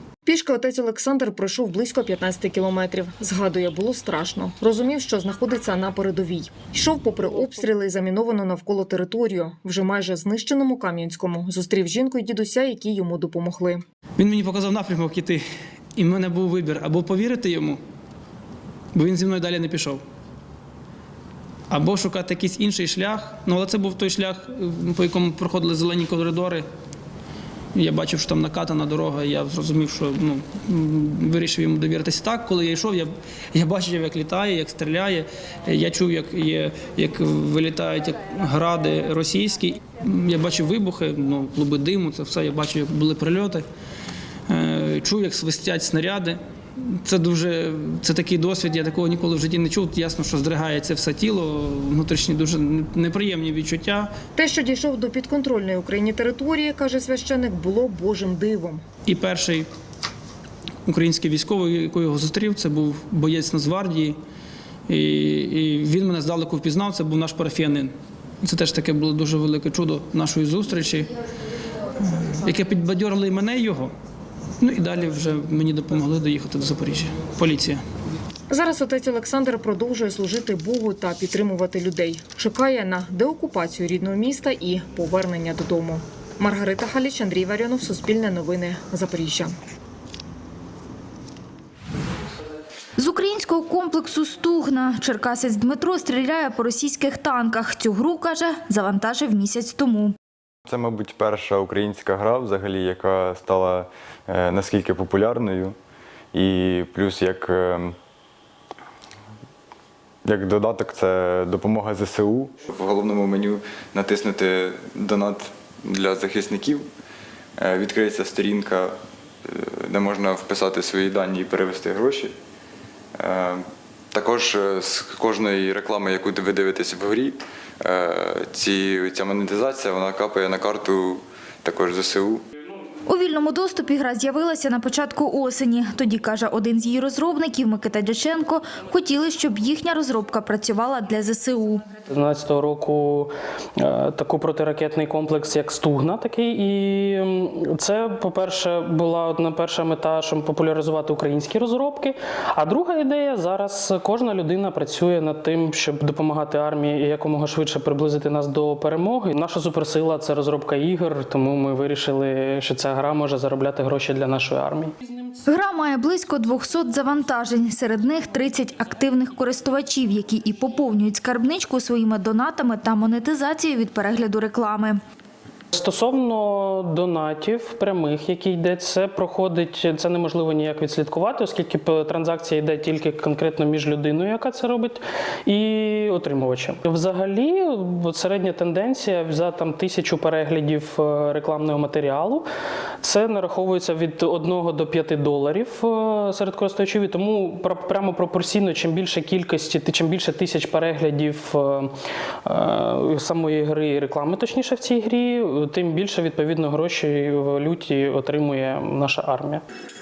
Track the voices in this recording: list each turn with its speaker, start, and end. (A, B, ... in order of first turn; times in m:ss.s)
0:00.2-0:13.8 A
0:14.2-0:15.4 B
0:16.0-0:17.8 B
0:18.9-0:20.0 B
0:21.7-0:26.6 B
0:27.7-0:43.6 B
0:44.5-0:54.1 B
0:54.3-0:58.8 A
0:59.0-0:59.7 B
1:00.8-1:04.2 B
1:04.9-1:11.1 B
1:12.0-1:13.9 B
1:14.6-1:17.8 B
1:18.5-1:29.5 A
1:33.0-1:40.1 C
1:40.6-1:45.8 D
1:46.3-1:48.0 D
1:50.2-1:56.9 D
1:57.6-1:58.9 D
1:59.5-2:02.3 D
2:03.2-2:12.4 D
2:13.1-2:21.9 C
2:22.0-2:44.9 E
2:45.5-2:55.0 C
2:55.7-3:12.4 E
3:13.0-3:21.9 E
3:22.5-3:29.6 E